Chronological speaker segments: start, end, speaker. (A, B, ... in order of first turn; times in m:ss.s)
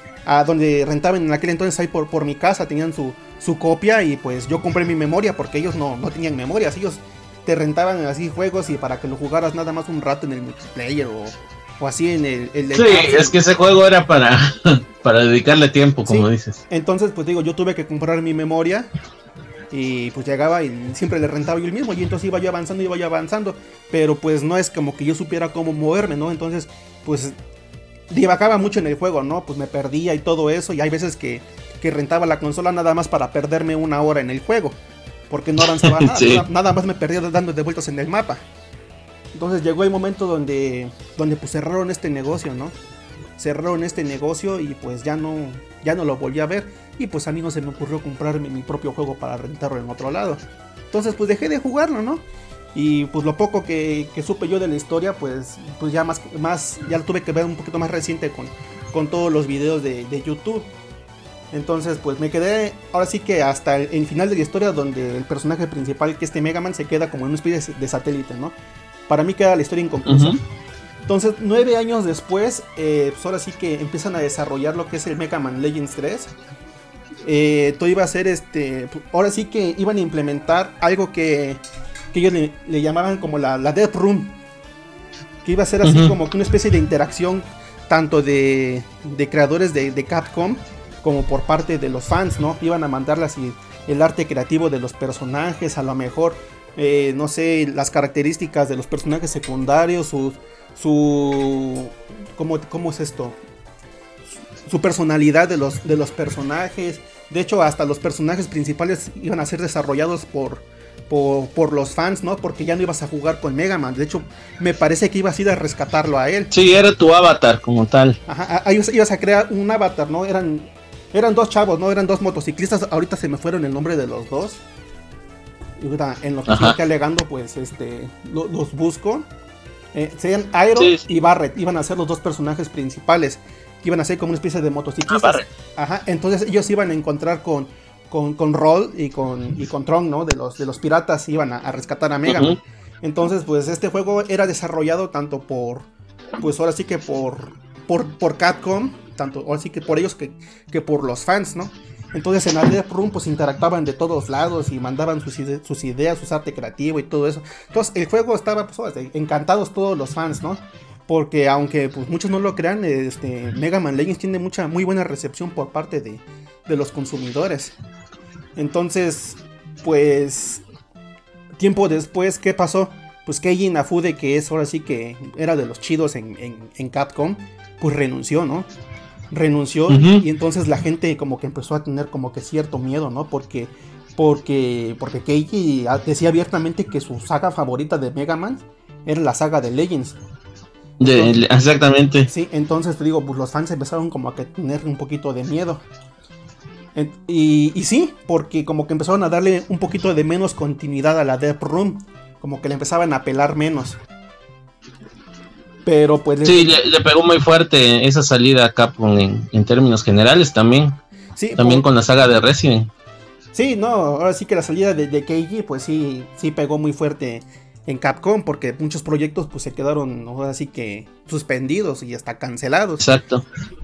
0:00.3-0:13.4 A
0:12.7-0:16.6 B
0:16.0-0:18.9 A
0:19.7-0:27.4 A
0:28.1-0:34.8 A
0:35.3-0:38.4 A
0:35.8-0:36.5 B
0:39.3-0:42.8 A
0:43.4-0:52.2 A
0:52.8-1:00.7 A
1:01.5-1:08.6 A
1:09.1-1:10.4 A
1:10.1-1:10.4 B
1:11.1-1:16.3 A
1:17.3-1:21.6 A
1:22.1-1:24.4 A
1:25.4-1:43.4 A
1:25.8-1:26.1 B
1:44.7-1:56.5 A
1:56.5-1:58.2 B
1:58.3-2:04.6 A
2:05.8-2:09.3 A
2:06.5-2:06.8 B
2:09.9-2:25.9 A
2:15.1-2:15.5 B
2:22.3-2:22.6 B
2:26.4-2:47.8 A
2:48.6-2:50.6 A
2:51.6-2:58.7 A
2:59.3-3:10.2 A
2:59.9-3:00.2 B
3:11.0-3:12.3 B
3:11.0-3:11.4 A
3:12.3-3:15.8 A
3:17.0-3:24.0 A
3:25.8-3:26.8 A
3:26.4-3:31.0 B
3:31.4-3:31.9 A
3:31.6-3:32.9 B
3:33.5-3:43.2 A
3:43.0-3:43.5 B